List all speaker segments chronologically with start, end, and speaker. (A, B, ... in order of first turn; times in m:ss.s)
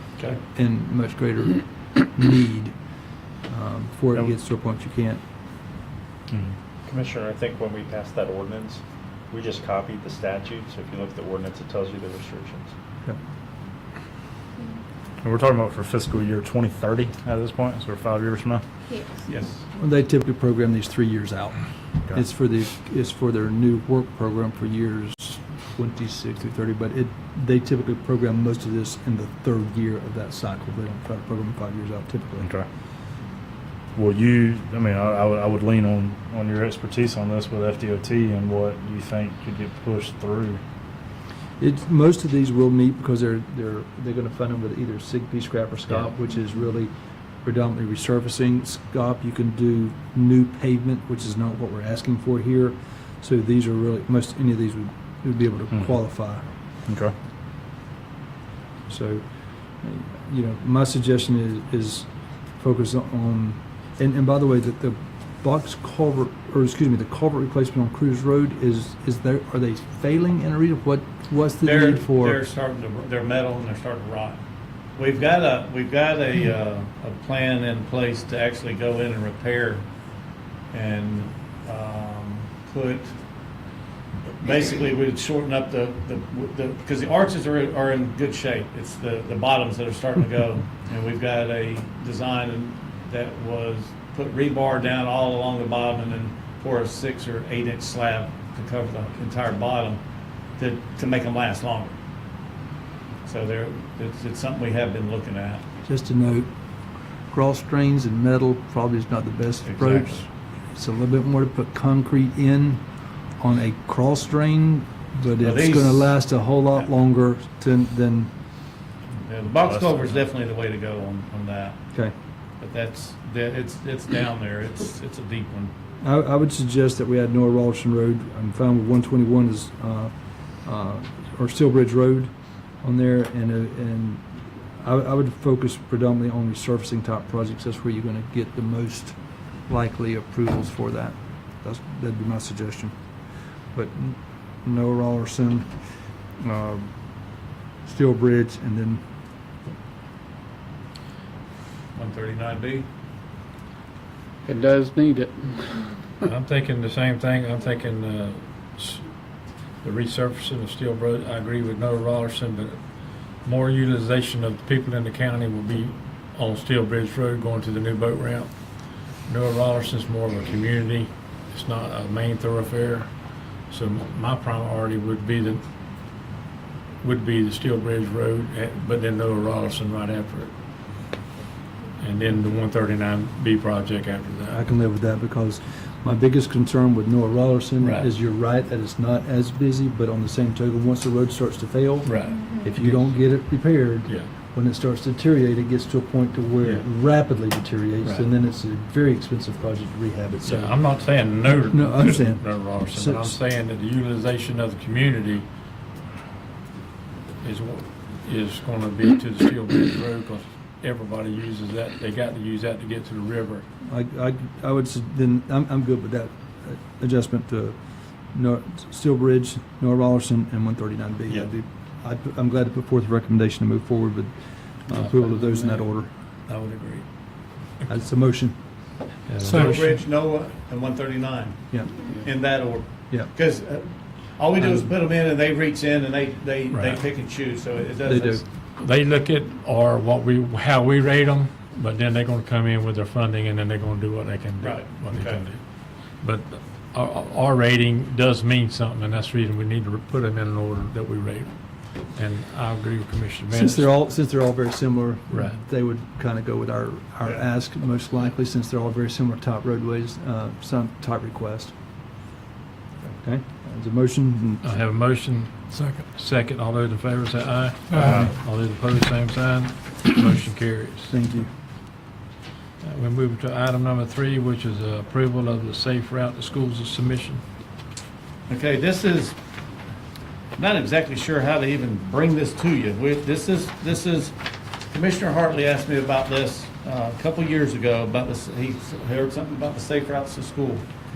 0:00.5-0:02.7 A
0:03.5-0:05.2 A
0:06.9-0:12.7 B
0:15.2-0:18.6 C
0:19.2-0:19.6 D
0:19.8-0:21.6 A
0:22.1-0:32.5 A
0:32.4-0:32.6 C
0:33.9-0:40.6 C
0:41.6-0:46.9 A
0:47.4-0:56.4 A
0:56.9-0:57.1 C
0:58.9-0:59.2 A
0:59.8-1:12.4 A
1:11.6-1:14.4 D
1:15.0-1:19.8 D
1:20.7-1:23.1 D
1:24.4-1:40.0 D
1:40.6-1:41.9 D
1:43.2-1:45.6 D
1:45.8-1:46.5 A
1:47.3-1:52.8 A
1:49.6-1:50.2 D
1:53.4-1:58.3 A
1:55.4-1:56.2 D
1:59.2-2:01.8 D
2:02.6-2:05.7 D
2:06.0-2:12.3 A
2:12.8-2:14.2 A
2:14.8-2:22.9 A
2:23.7-2:25.8 A
2:26.4-2:26.9 A
2:27.8-2:29.0 A
2:31.9-2:32.9 D
2:34.4-2:36.1 E
2:36.2-2:39.1 F
2:39.8-2:53.1 F
2:53.6-2:55.6 F
2:57.0-3:00.5 F
3:02.0-3:04.6 F
3:04.5-3:20.8 A
3:07.8-3:08.1 F
3:12.0-3:13.4 F
3:18.0-3:18.3 F
3:20.4-3:25.4 F
3:21.7-3:23.4 A
3:27.4-3:33.6 F
3:33.8-3:37.8 A
3:38.3-3:46.1 A
3:44.9-3:45.8 F
3:46.5-3:47.0 F
3:47.8-3:48.6 A
3:49.2-3:49.8 F
3:49.5-3:49.9 E
3:49.6-3:58.4 D
3:54.6-3:54.9 A
3:56.7-3:57.0 F
3:58.0-3:58.4 A
3:58.6-4:14.0 F
4:04.6-4:05.4 D
4:13.5-4:21.7 A
4:15.3-4:15.6 F
4:23.2-4:24.6 A
4:24.6-4:31.1 F
4:25.7-4:26.0 E
4:27.9-4:28.3 C
4:31.1-4:31.5 A
4:32.8-4:37.4 F
4:38.5-4:39.4 D
4:40.6-4:44.4 D
4:44.9-4:50.8 D